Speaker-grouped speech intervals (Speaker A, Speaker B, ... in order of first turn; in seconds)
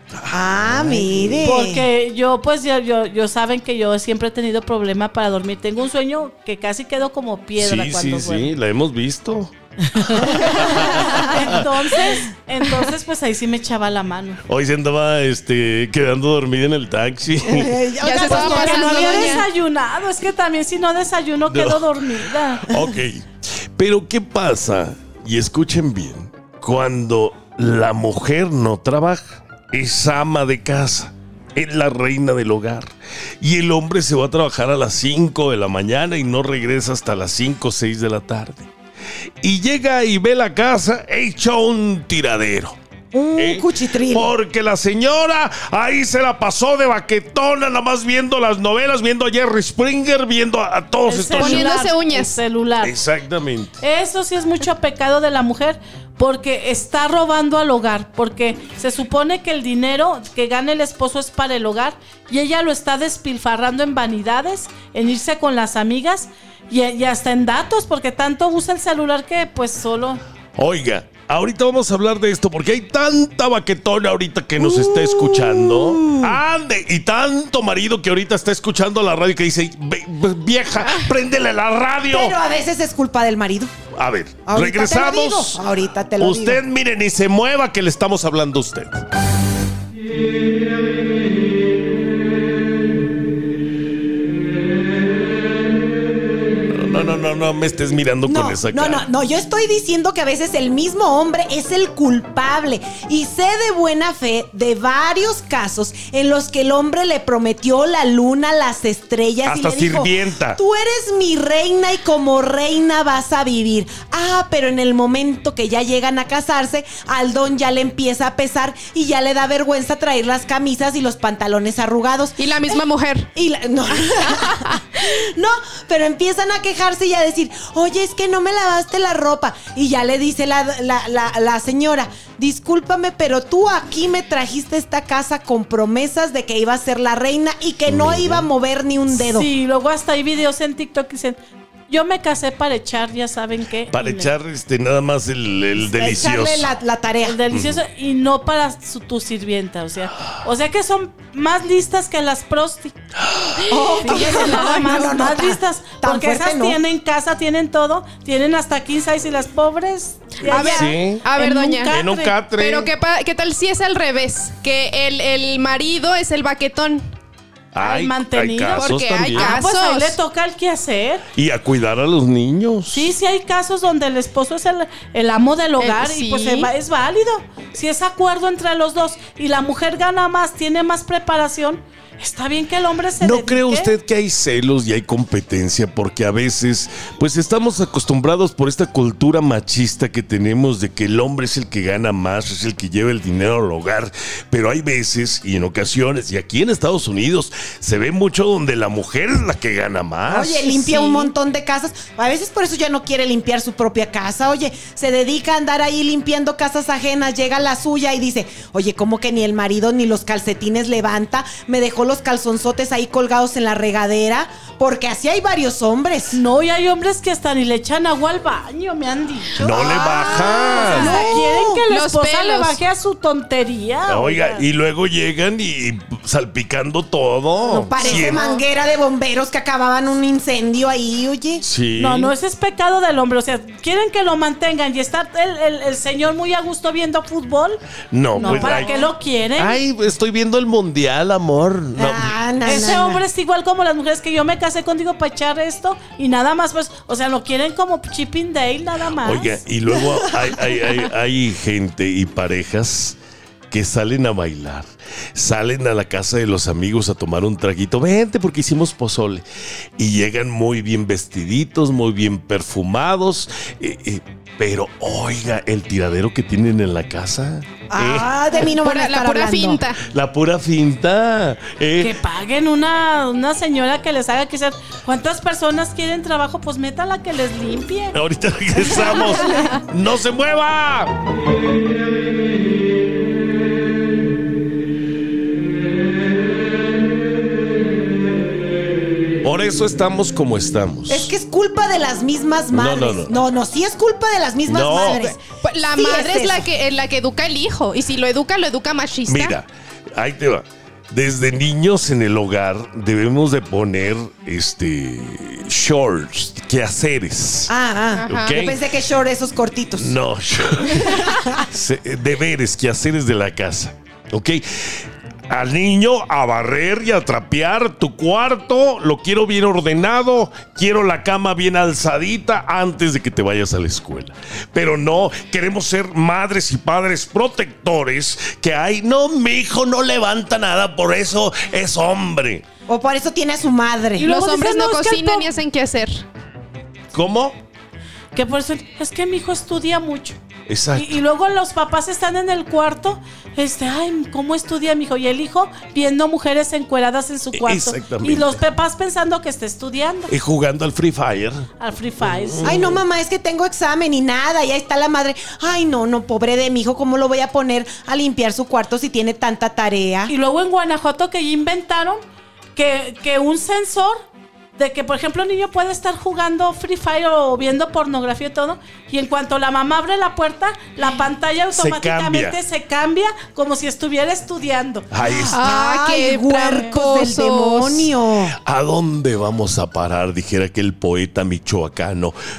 Speaker A: 0.2-1.5, 7.6-11.7, 14.5-17.8, 21.5-23.2, 23.8-38.7, 39.4-42.8, 43.4-51.7, 52.8-53.8, 70.6-82.4, 84.0-85.6, 86.2-89.0, 96.7-99.1, 109.5-110.6, 137.9-138.5, 143.9-146.7, 147.5-147.8, 153.3-153.6, 160.7-161.2, 161.9-162.9, 167.7-169.6, 171.3-173.1, 183.2-201.0, 219.6-221.2, 224.1-228.5, 231.6-232.3, 238.1-242.4, 249.2-253.2, 253.7-259.4, 260.0-268.7, 270.0-272.2, 278.1-281.1, 289.4-291.3, 292.7-293.3, 294.7-295.4, 299.3-307.7, 308.3-308.8, 310.0-332.7, 337.1-337.6, 340.7-341.2, 347.6-348.6, 350.3-351.7, 352.2-353.0, 371.7-372.6, 375.1-375.5, 378.6-382.3
Speaker B: 0.3-1.9, 17.4-19.5, 43.1-44.3, 74.6-76.4, 82.1-83.7, 84.5-86.6, 98.3-122.8, 123.3-139.5, 145.8-147.4, 153.7-156.8, 160.4-161.0, 200.3-216.4, 219.6-221.8, 227.7-231.6, 238.4-238.8, 242.0-243.2, 267.9-269.8, 291.1-296.7, 307.7-310.1, 332.9-334.3, 352.6-360.3, 375.2-378.6
Speaker C: 1.4-8.6, 9.9-14.4, 18.2-22.7, 51.1-53.0, 53.8-70.2, 139.1-141.4, 141.9-144.3, 147.2-152.9, 154.0-162.4, 167.8-171.2, 172.9-183.9, 216.3-224.6, 232.0-237.8, 238.4-239.8, 242.7-249.6, 272.0-278.2, 278.7-279.8, 334.2-335.5, 338.3-340.4, 340.9-350.3, 351.8-352.8, 360.3-362.2, 362.8-364.2, 364.8-375.1
Speaker D: 18.0-19.5, 51.4-52.4, 122.4-123.3, 124.2-124.8, 154.1-154.5, 160.5-161.9, 162.6-167.1, 168.7-170.2, 175.8-176.7, 201.0-201.3, 221.9-222.8, 228.0-228.6, 268.8-270.0, 295.6-299.6, 308.2-308.6, 334.3-336.2, 375.5-378.1